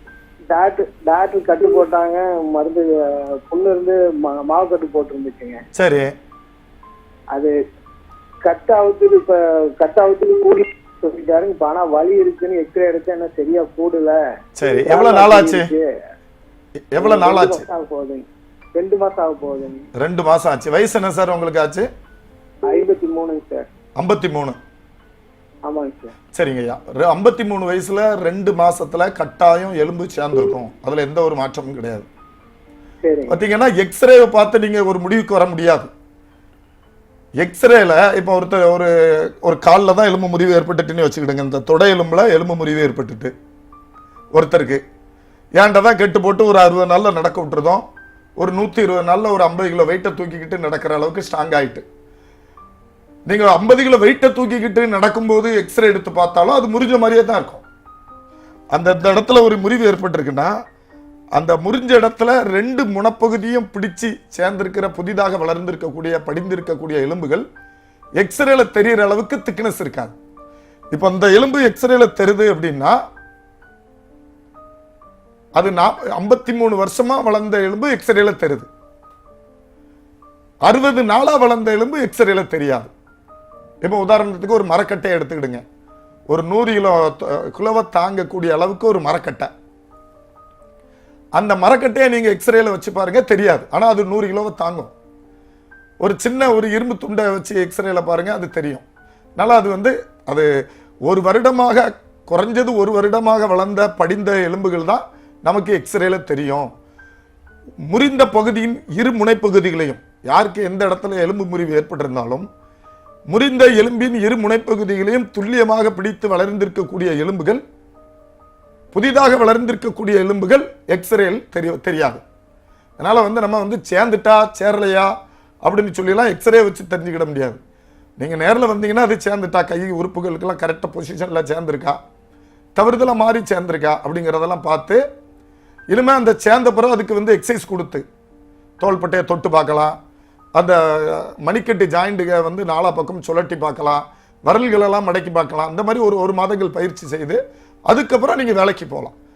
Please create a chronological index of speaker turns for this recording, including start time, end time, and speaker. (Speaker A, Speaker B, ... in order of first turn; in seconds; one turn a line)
Speaker A: 0.5-5.6
Speaker B: 5.8-6.1
Speaker A: 8.4-15.9
Speaker B: 14.6-15.7
Speaker B: 16.9-17.6
Speaker A: 17.0-19.9
Speaker B: 20.0-21.9
Speaker A: 22.7-23.7
Speaker B: 24.0-24.6
Speaker A: 25.7-26.1
Speaker B: 26.3-32.1
Speaker A: 33.0-33.4
Speaker B: 33.3-35.9
Speaker B: 37.4-43.3
Speaker B: 44.3-44.8
Speaker B: 45.6-47.8
Speaker B: 48.4-51.8
Speaker B: 53.3-57.6
Speaker B: 58.7-60.5
Speaker B: 61.3-67.4
Speaker B: 68.2-70.2
Speaker B: 70.9-73.0
Speaker B: 75.5-78.7
Speaker B: 80.7-82.9
Speaker B: 83.8-85.6
Speaker B: 86.3-89.5
Speaker B: 91.4-94.9
Speaker B: 96.0-98.8
Speaker B: 99.4-100.5
Speaker B: 101.1-106.7
Speaker B: 107.9-112.5
Speaker B: 113.3-117.6
Speaker B: 118.9-122.2
Speaker B: 123.0-125.1
Speaker B: 125.7-127.6
Speaker B: 128.2-132.0
Speaker B: 132.8-135.0
Speaker B: 135.9-138.0
Speaker B: 138.8-140.0
Speaker B: 140.6-149.1